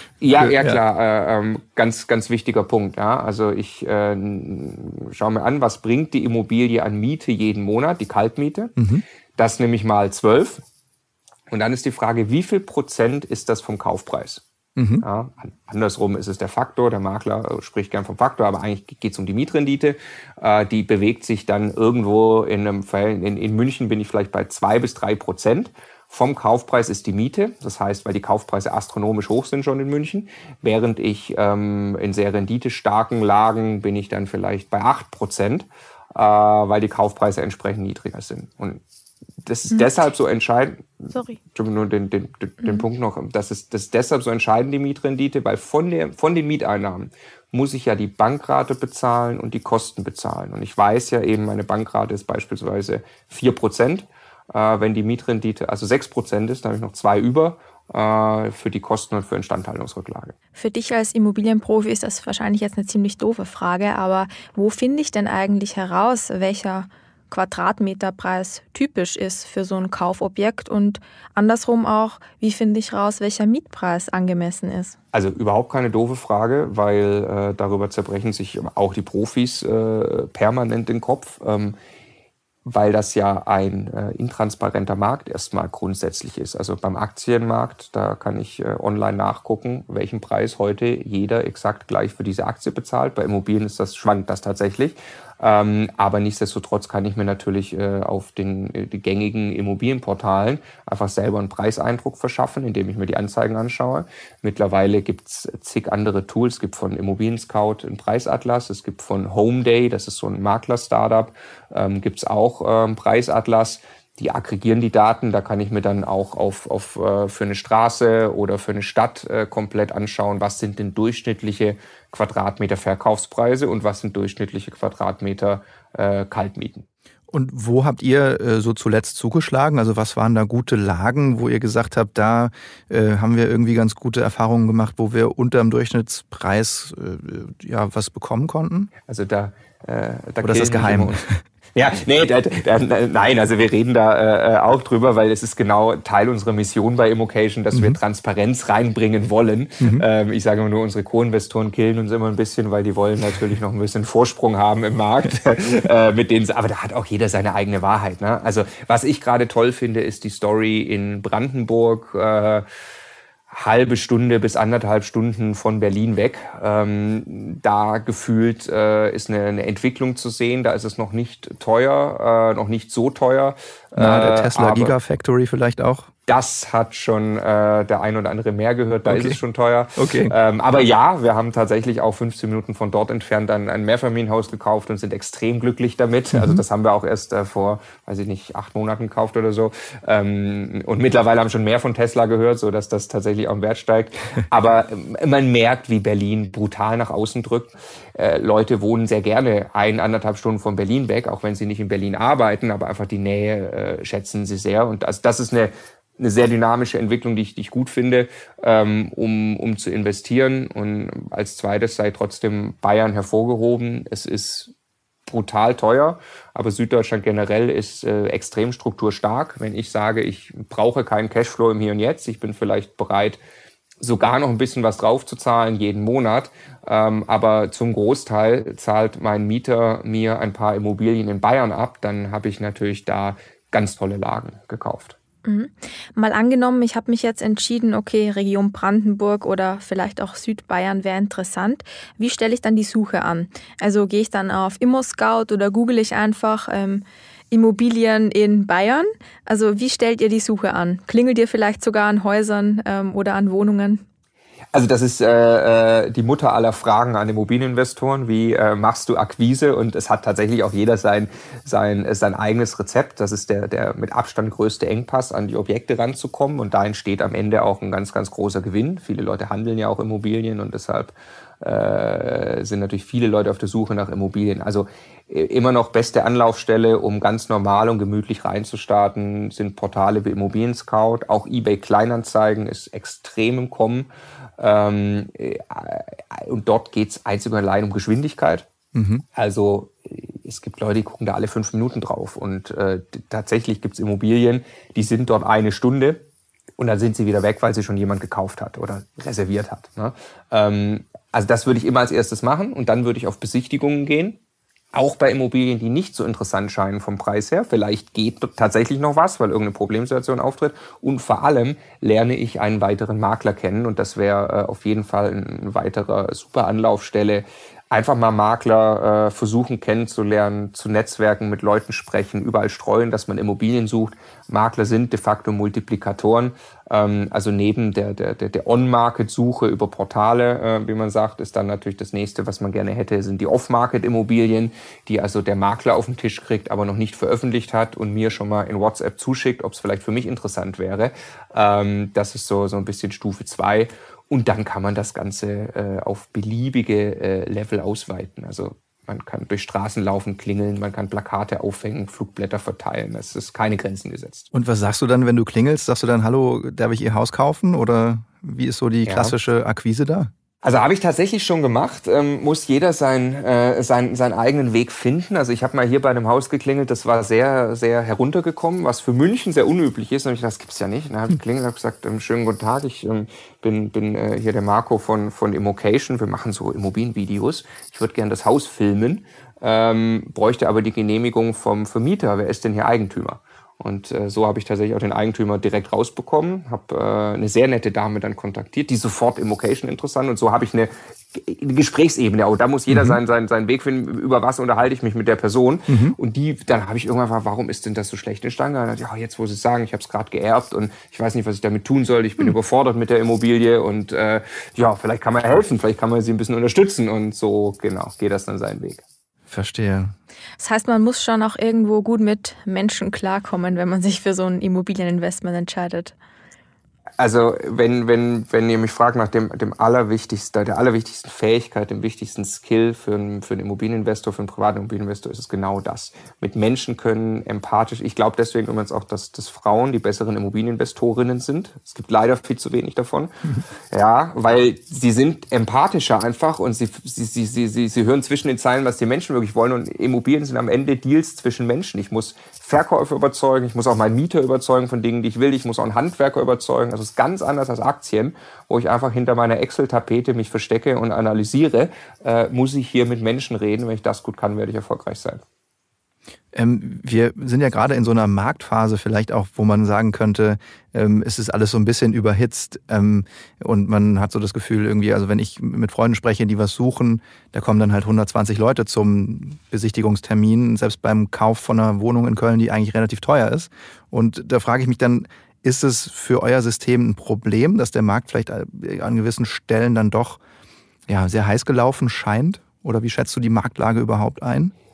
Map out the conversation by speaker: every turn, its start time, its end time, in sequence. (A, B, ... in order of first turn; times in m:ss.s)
0:00.2-0:08.7 A
0:00.4-0:00.8 B
0:08.8-0:09.0 B
0:09.4-0:10.6 A
0:11.5-0:14.4 A
0:14.8-0:15.0 B
0:15.0-0:38.8 A
0:39.4-1:00.4 A
1:00.6-1:15.0 C
1:15.1-1:21.8 A
1:22.7-2:06.9 A
2:07.3-2:18.9 B
2:19.1-2:21.2 A
2:20.4-2:21.3 B
2:21.8-2:42.6 A
2:27.7-2:28.0 B
2:29.8-2:30.0 B
2:43.5-2:54.9 A
2:54.0-2:56.1 B
2:56.3-3:34.7 A
2:59.1-2:59.4 B
3:00.0-3:00.3 B
3:06.3-3:06.6 B
3:35.3-3:43.4 A
3:44.0-3:55.2 A
3:55.4-4:14.0 C
4:14.7-4:48.7 A
4:48.9-4:49.2 B
4:49.4-4:56.2 A
4:56.8-5:04.4 A
5:04.9-5:54.5 A
5:54.5-6:00.3 B
5:59.1-5:59.4 A
6:00.6-6:49.0 A
6:32.9-6:33.2 B
6:35.9-6:36.2 B
6:49.5-6:50.2 B
6:50.6-6:56.2 C
6:57.2-7:13.3 A
7:13.9-7:35.4 A
7:36.5-8:00.4 B
8:01.1-8:04.7 B